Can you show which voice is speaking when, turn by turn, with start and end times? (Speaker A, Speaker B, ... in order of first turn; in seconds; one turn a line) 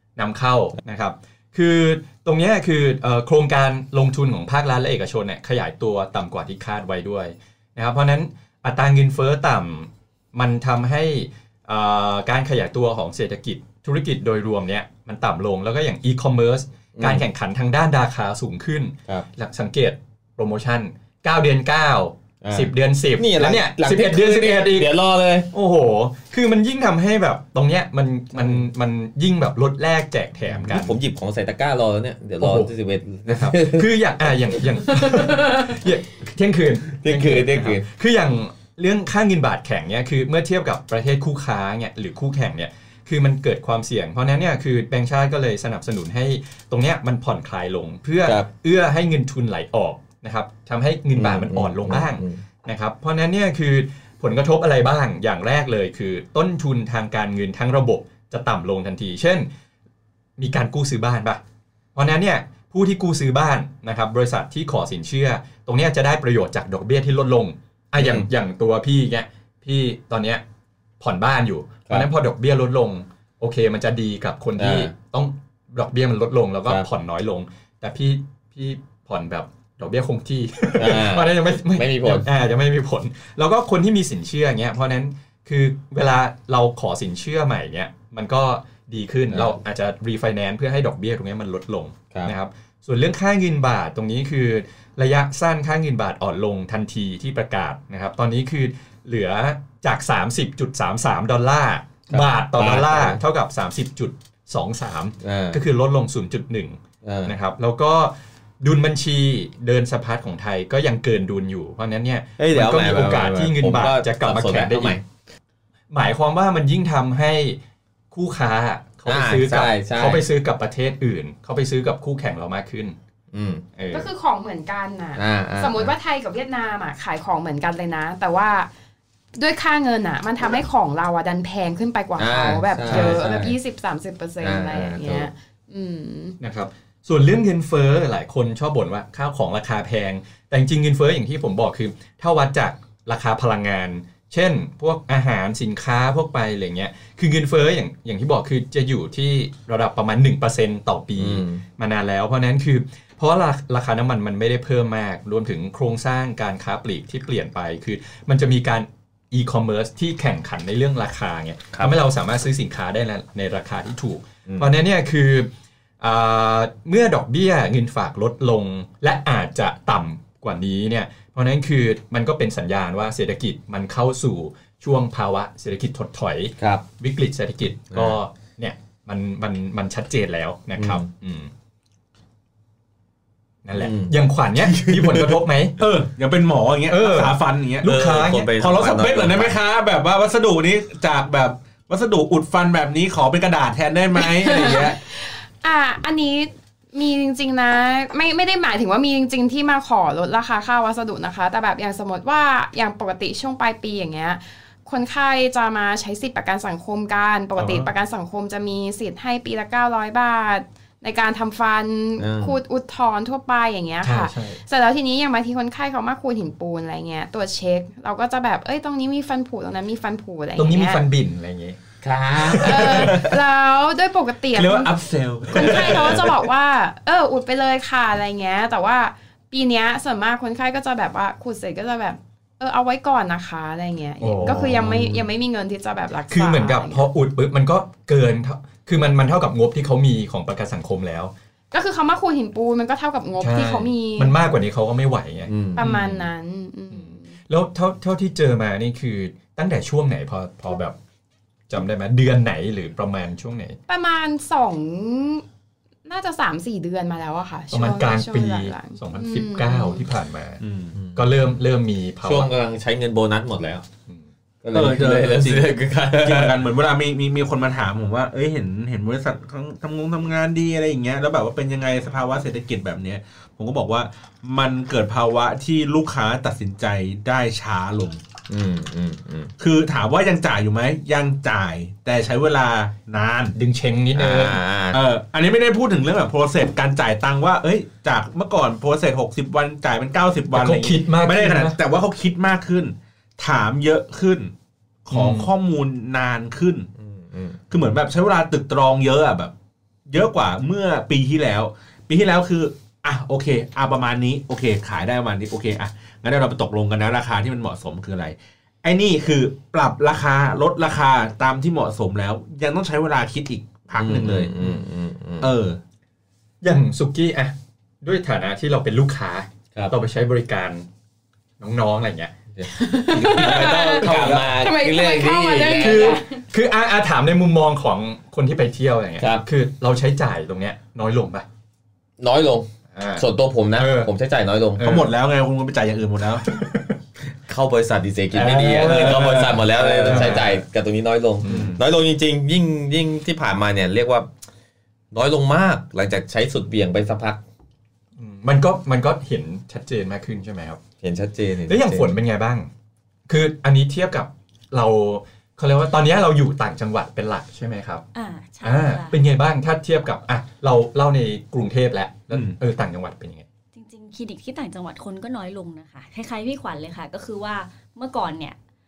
Speaker A: 0.2-24.9
Speaker B: 16.9-17.2
Speaker B: 22.4-25.5
Speaker A: 25.5-30.9
Speaker B: 28.4-28.6
Speaker B: 30.6-33.9
Speaker A: 32.4-32.7
Speaker A: 33.3-59.5
Speaker B: 37.0-37.8
Speaker B: 51.1-52.4
Speaker A: 60.4-61.4
Speaker A: 61.9-70.4
Speaker B: 68.0-68.2
Speaker A: 71.0-115.0
Speaker B: 74.6-74.9
Speaker B: 80.8-82.3
Speaker B: 102.1-103.2
Speaker B: 105.2-105.6
Speaker B: 107.0-107.3
Speaker B: 112.4-115.0
Speaker A: 115.9-117.6
Speaker A: 118.1-123.0
Speaker B: 119.0-120.2
Speaker B: 123.3-123.6
Speaker A: 123.8-124.1
Speaker C: 123.9-128.7
Speaker B: 125.2-125.9
Speaker C: 129.4-136.4
Speaker B: 132.2-133.6
Speaker A: 132.8-133.2
Speaker B: 134.4-135.3
Speaker A: 136.4-165.5
Speaker B: 151.2-151.6
Speaker A: 166.0-181.5
Speaker B: 176.6-176.8
Speaker B: 180.8-181.0
Speaker A: 183.6-185.8
Speaker B: 183.8-184.1
Speaker B: 184.6-185.3
Speaker D: 185.8-195.0
Speaker A: 186.9-188.6
Speaker B: 187.8-189.6
Speaker C: 194.2-221.0
Speaker A: 207.6-207.9
Speaker B: 212.2-212.6
Speaker A: 214.0-214.6
Speaker A: 220.6-221.8
Speaker B: 222.0-223.4
Speaker A: 222.3-223.2
Speaker C: 222.5-225.0
Speaker D: 224.5-226.3
Speaker C: 225.5-237.1
Speaker B: 225.8-226.3
Speaker A: 234.2-235.3
Speaker A: 236.3-241.3
Speaker C: 241.7-244.3
Speaker A: 243.4-246.3
Speaker B: 245.5-245.8
Speaker C: 245.7-247.3
Speaker A: 246.9-251.0
Speaker A: 251.7-253.8
Speaker C: 253.9-255.4
Speaker C: 256.1-260.1
Speaker A: 257.7-260.6
Speaker D: 260.6-260.9
Speaker B: 260.9-261.2
Speaker A: 261.1-262.5
Speaker B: 262.2-263.8
Speaker B: 264.6-266.5
Speaker D: 264.7-278.2
Speaker B: 278.5-279.5
Speaker D: 279.6-283.5
Speaker A: 283.5-284.6
Speaker B: 284.1-285.0
Speaker D: 284.9-294.5
Speaker A: 290.5-291.8
Speaker D: 295.1-296.9
Speaker A: 295.1-295.5
Speaker B: 297.0-297.6
Speaker D: 297.7-299.5
Speaker D: 300.1-314.8
Speaker B: 313.9-315.5
Speaker D: 315.4-315.8
Speaker A: 316.6-320.9
Speaker A: 321.6-322.3
Speaker B: 322.6-326.2
Speaker C: 322.7-326.4
Speaker D: 323.1-324.4
Speaker A: 323.2-324.5
Speaker A: 325.8-331.4
Speaker B: 329.2-329.4
Speaker B: 332.2-334.9
Speaker A: 332.9-334.1
Speaker A: 334.8-335.1
Speaker D: 334.8-336.4
Speaker A: 336.5-336.9
Speaker B: 337.5-344.3
Speaker D: 338.3-340.6
Speaker A: 338.4-340.6
Speaker A: 341.4-341.8
Speaker D: 341.4-341.8
Speaker B: 345.1-347.4
Speaker A: 348.2-350.8
Speaker B: 351.0-352.1
Speaker A: 351.7-352.7
Speaker A: 353.3-358.0
Speaker E: 358.1-359.2
Speaker A: 358.6-363.4
Speaker E: 363.7-368.6